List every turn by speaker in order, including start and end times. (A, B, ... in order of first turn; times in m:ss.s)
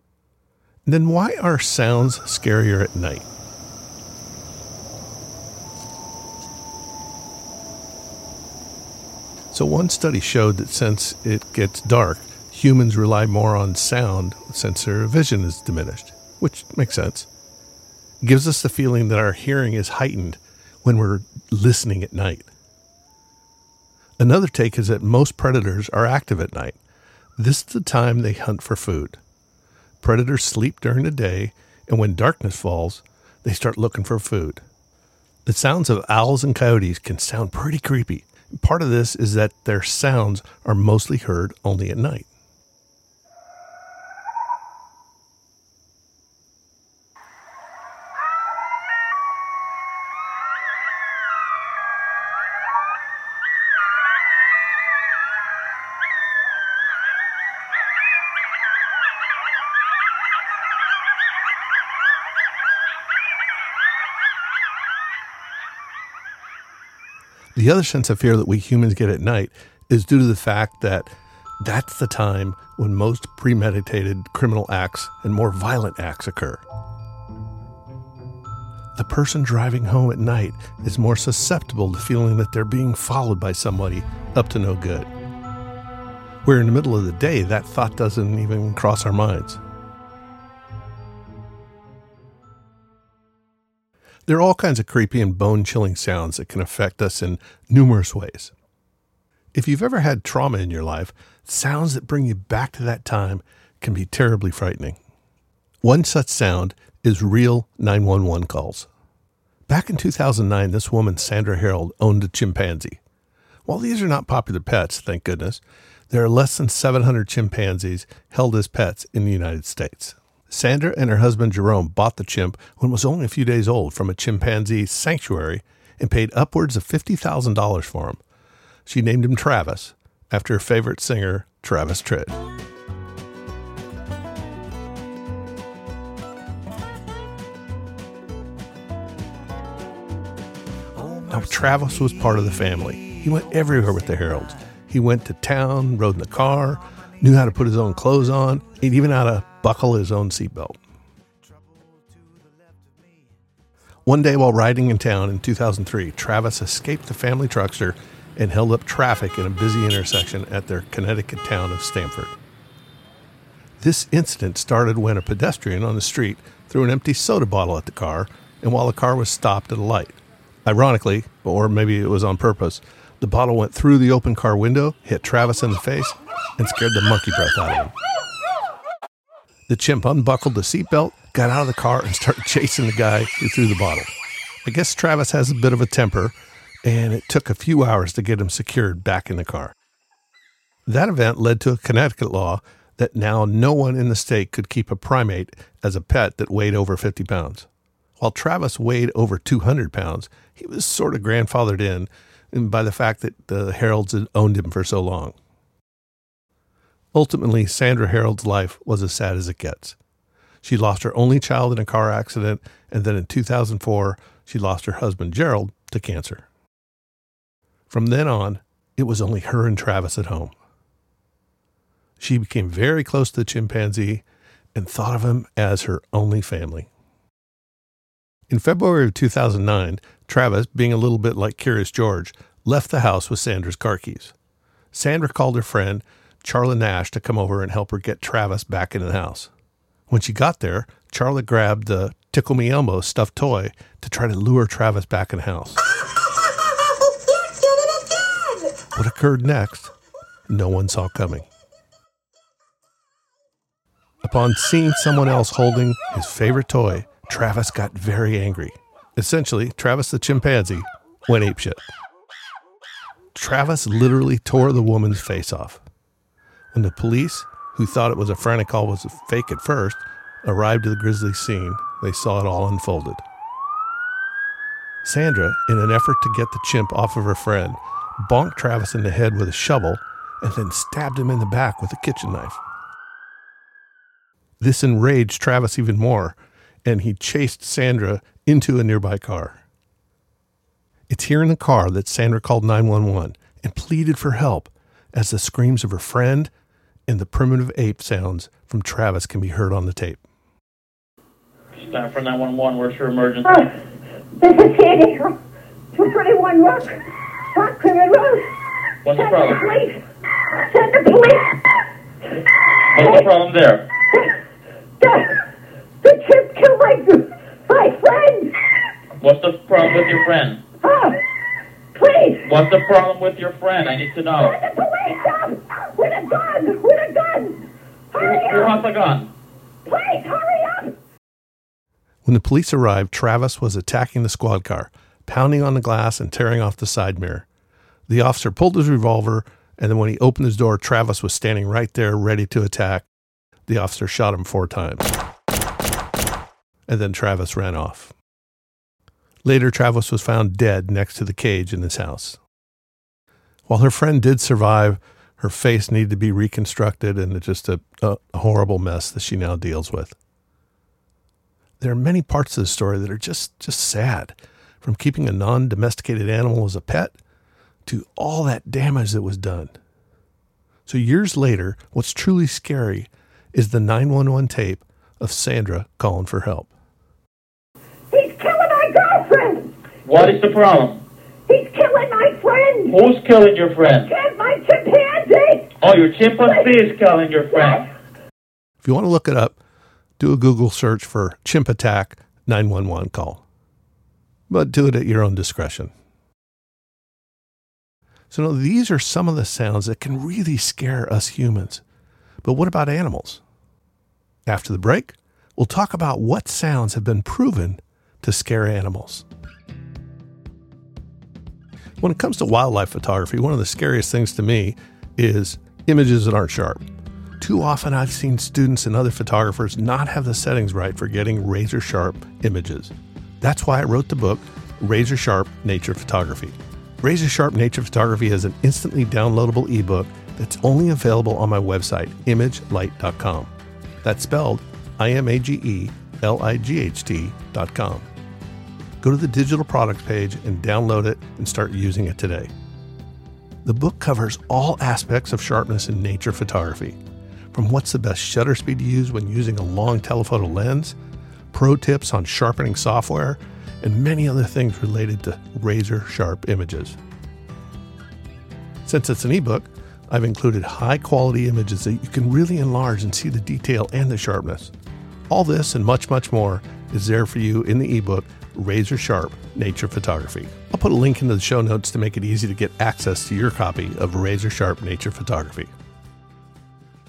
0:00.9-0:03.3 A
0:09.5-0:17.3 A
0:18.2-0:22.5 A
0:24.2-0:26.8 A
0:27.4-0:29.2 A
0:30.0-0:34.6 A
0:35.4-0:42.3 A
1:07.5-1:16.6 A
1:19.0-1:25.1 A
1:26.4-1:29.6 A
1:34.3-1:38.5 A
1:39.5-1:45.0 A
1:45.8-1:48.9 A
1:49.7-1:53.0 A
1:53.6-2:08.2 A
2:08.8-2:12.4 A
2:21.2-2:30.8 A
2:34.1-2:42.4 A
2:43.8-2:58.0 A
2:59.7-3:04.1 A
3:04.6-3:09.7 A
3:10.9-3:25.4 A
3:27.1-3:30.0 A
3:30.6-3:36.5 A
3:37.9-3:40.6 A
3:42.2-3:46.9 A
3:48.5-3:54.4 A
3:54.9-3:59.5 A
4:00.1-4:05.8 A
4:08.9-4:09.9 A
4:10.5-4:11.5 A
4:14.2-4:21.8 A
4:23.4-4:25.8 A
4:26.7-4:33.2 A
4:35.0-4:42.6 A
4:44.6-4:49.6 A
4:51.1-4:56.5 A
4:57.1-5:00.2 A
5:01.8-5:03.7 B
5:04.4-5:05.4 C
5:05.9-5:08.5 C
5:09.0-5:09.6 B
5:09.2-5:10.0 C
5:10.6-5:11.8 C
5:12.8-5:13.9 B
5:15.0-5:15.4 C
5:16.0-5:18.6 C
5:19.2-5:20.6 B
5:20.8-5:21.2 C
5:21.9-5:22.5 C
5:22.4-5:24.6 B
5:24.4-5:28.8 C
5:28.2-5:29.3 B
5:29.9-5:31.0 C
5:32.2-5:37.5 A
5:38.1-5:43.1 A
5:43.7-5:45.1 A
5:46.9-5:48.1 A
5:49.4-5:52.4 A
5:53.7-6:00.2 A
6:01.8-6:07.2 A
6:07.9-6:09.7 A
6:10.9-6:16.7 A
6:18.1-6:19.8 C
6:20.0-6:21.0 B
6:21.5-6:23.0 C
6:22.9-6:24.1 B
6:24.1-6:25.7 C
6:25.8-6:27.9 B
6:28.8-6:29.6 A
6:30.2-6:33.4 A
6:34.5-6:35.9 A
6:38.3-6:41.8 A
6:42.4-6:43.4 A
6:44.5-6:49.2 A
6:52.0-6:56.8 A
6:57.4-7:13.5 A
7:14.0-7:18.1 A
7:19.0-7:22.5 A
7:23.6-7:27.0 A
7:27.5-7:31.0 A
7:31.5-7:37.0 A
7:38.8-7:44.7 A
7:45.3-7:55.7 A